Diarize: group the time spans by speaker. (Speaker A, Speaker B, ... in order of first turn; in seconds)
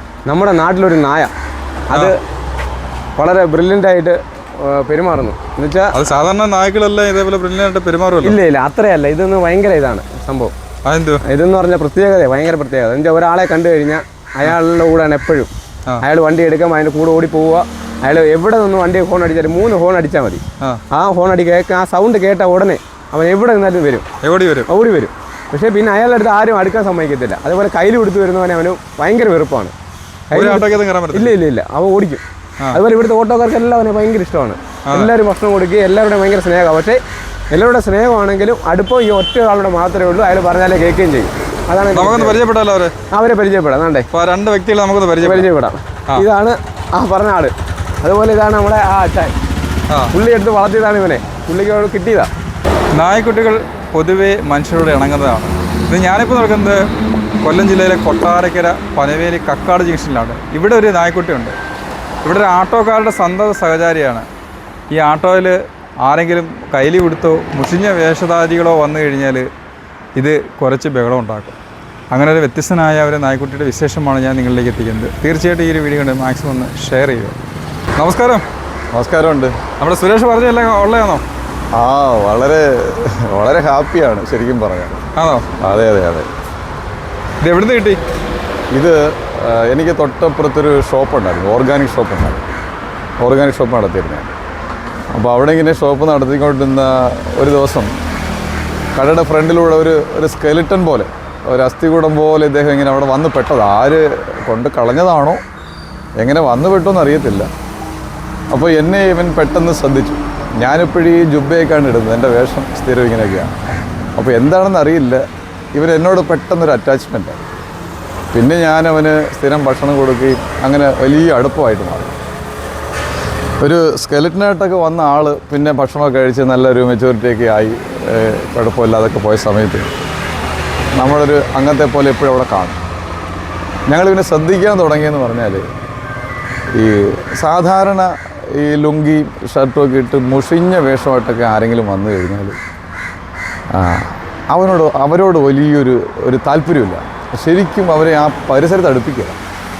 Speaker A: 0.2-1.3, 1.9-2.2, 3.2-5.9, 8.2-10.5, 11.2-15.5, 16.0-24.1, 24.7-29.7, 30.3-32.2, 32.7-37.0, 37.5-42.4, 43.1-44.1, 45.2-49.3, 50.1-52.3
Speaker B: 5.9-8.4, 10.8-11.2, 24.2-24.7, 30.3-31.3, 41.9-42.9, 44.1-45.5, 52.9-56.8, 57.4-61.6, 62.2-64.3, 64.9-69.5, 70.2-71.6, 72.1-77.3, 78.0-78.4, 79.8-81.2, 85.2-85.5, 87.4-88.0
Speaker C: 78.9-79.6, 81.7-85.0, 85.6-86.3, 88.7-92.5, 93.2-94.3, 95.1-97.9, 98.9-105.4, 106.2-107.5, 108.5-113.5, 114.2-115.2, 115.7-117.4, 118.3-122.2, 123.6-129.9, 130.9-132.8, 133.9-135.6, 136.7-142.6, 143.7-149.4